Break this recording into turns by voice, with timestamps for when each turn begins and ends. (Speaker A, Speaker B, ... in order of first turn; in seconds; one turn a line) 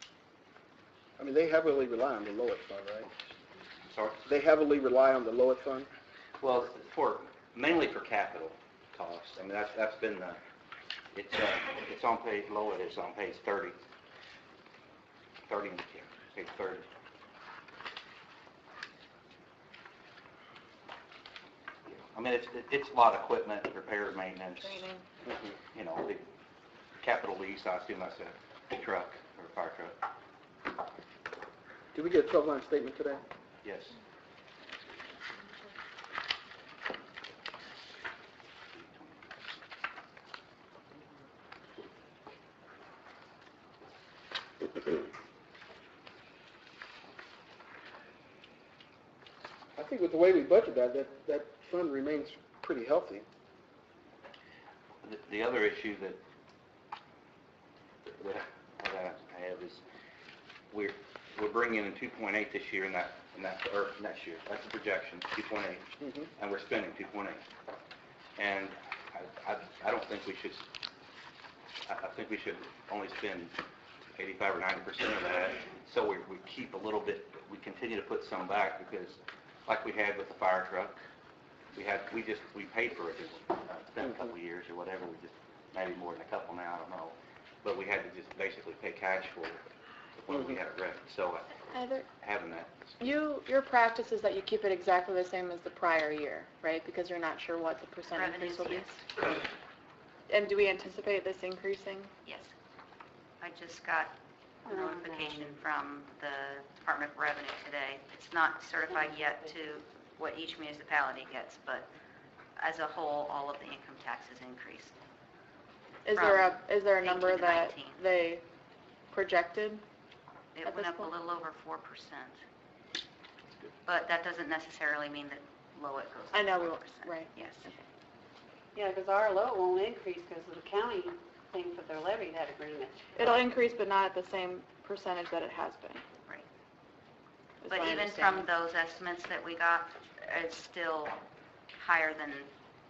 Speaker A: 1.2-3.1
Speaker B: 3.9-4.2
Speaker A: 4.2-5.9
Speaker B: 6.4-10.4
Speaker B: 11.1-13.8
Speaker B: 15.5-16.9
Speaker B: 21.9-24.8
Speaker A: 25.2-25.5
Speaker B: 25.7-26.2
Speaker B: 27.0-30.0
Speaker A: 31.9-33.2
Speaker B: 33.6-34.0
Speaker B: 38.7-39.3
Speaker A: 49.8-53.2
Speaker B: 55.0-56.2
Speaker B: 58.1-59.8
Speaker B: 60.7-67.4
Speaker B: 68.4-70.6
Speaker B: 71.9-73.5
Speaker B: 74.2-81.0
Speaker B: 81.7-89.6
Speaker B: 90.2-91.6
Speaker A: 90.3-90.6
Speaker C: 91.7-92.0
Speaker B: 92.2-93.1
Speaker C: 93.0-99.0
Speaker D: 98.1-99.3
Speaker C: 100.3-102.1
Speaker D: 102.2-102.5
Speaker D: 103.4-104.1
Speaker E: 104.7-105.6
Speaker D: 104.7-111.9
Speaker E: 108.9-109.5
Speaker D: 112.6-114.9
Speaker C: 116.0-118.4
Speaker D: 116.1-118.0
Speaker C: 119.1-119.8
Speaker D: 120.5-122.4
Speaker C: 120.7-121.1
Speaker D: 123.8-127.7
Speaker C: 126.3-127.3
Speaker E: 128.7-133.4
Speaker C: 133.2-136.0
Speaker C: 137.6-138.4
Speaker D: 137.7-141.2
Speaker D: 141.8-142.5